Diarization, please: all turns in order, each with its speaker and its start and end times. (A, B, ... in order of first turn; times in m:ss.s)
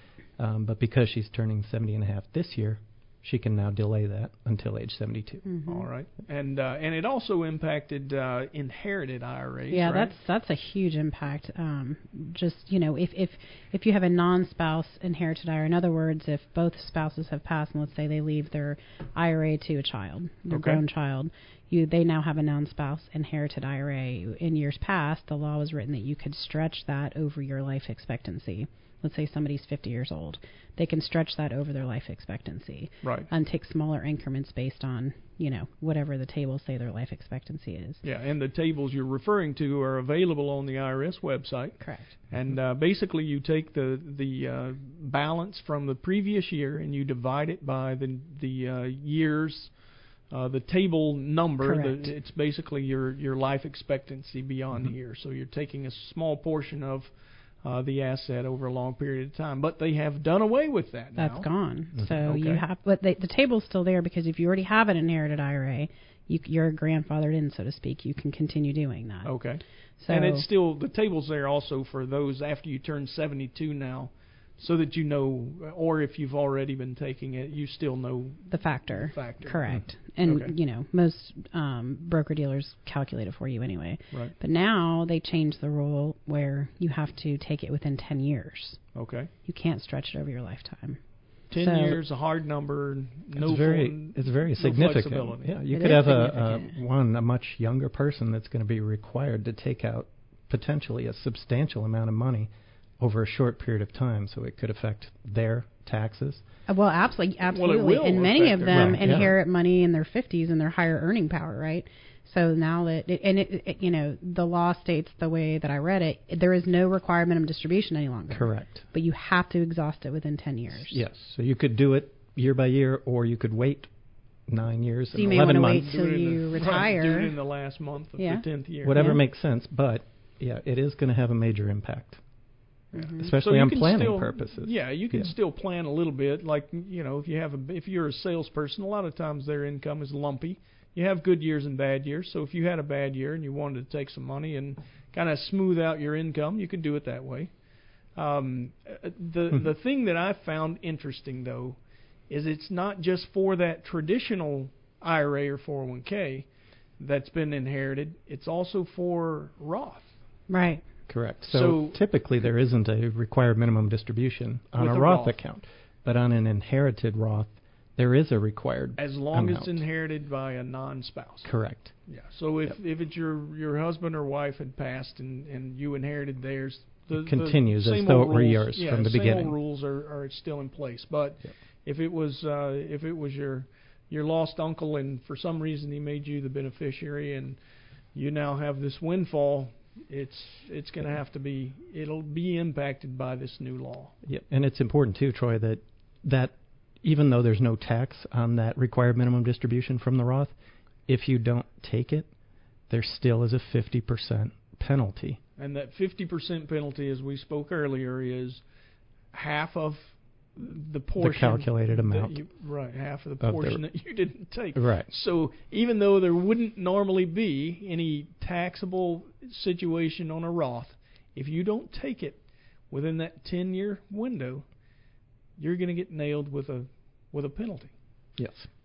0:00.4-0:05.5 A
0:05.4-0:05.8 B
0:05.7-0:10.1 C
0:09.7-0:38.0 B
0:20.5-0:20.8 C
0:33.0-0:33.3 C
0:38.0-0:49.7 C
0:41.8-0:42.1 B
0:50.3-0:57.1 C
0:51.6-0:52.1 B
0:57.6-1:01.5 C
1:01.2-1:09.3 B
1:02.2-1:02.6 C
1:09.2-1:20.5 C
1:10.0-1:10.4 B
1:18.5-1:28.8 B
1:28.9-1:29.3 C
1:29.4-1:31.0 B
1:31.5-1:35.5 C
1:31.5-1:32.0 B
1:33.4-1:46.4 A
1:35.7-1:36.7 B
1:46.7-2:01.0 B
1:47.5-1:49.3 C
1:48.7-1:49.3 A
1:58.3-1:58.8 A
2:00.8-2:03.9 A
2:04.5-2:06.0 A
2:05.1-2:07.3 B
2:05.5-2:09.0 C
2:08.2-2:08.4 B
2:08.8-2:12.2 A
2:08.9-2:09.2 B
2:12.9-2:13.3 B
2:13.2-2:15.3 A
2:13.4-2:27.5 C
2:28.2-2:31.8 C
2:32.3-2:36.5 C
2:37.0-2:40.1 C
2:40.5-2:40.8 B
2:41.1-2:49.8 A
2:41.4-2:42.0 C
2:44.8-2:45.4 C
2:49.0-2:51.5 C
2:51.4-2:51.9 A
2:52.1-3:07.6 C
2:57.1-2:59.6 A
3:08.1-3:14.1 C
3:14.2-3:20.5 A
3:21.1-3:22.3 A
3:22.9-3:25.4 A
3:25.6-3:28.6 C
3:29.3-3:42.4 C
3:31.2-3:32.4 A
3:33.4-3:33.8 A
3:34.7-3:35.1 A
3:42.9-3:44.6 C
3:45.6-3:47.9 C
3:48.4-3:48.7 A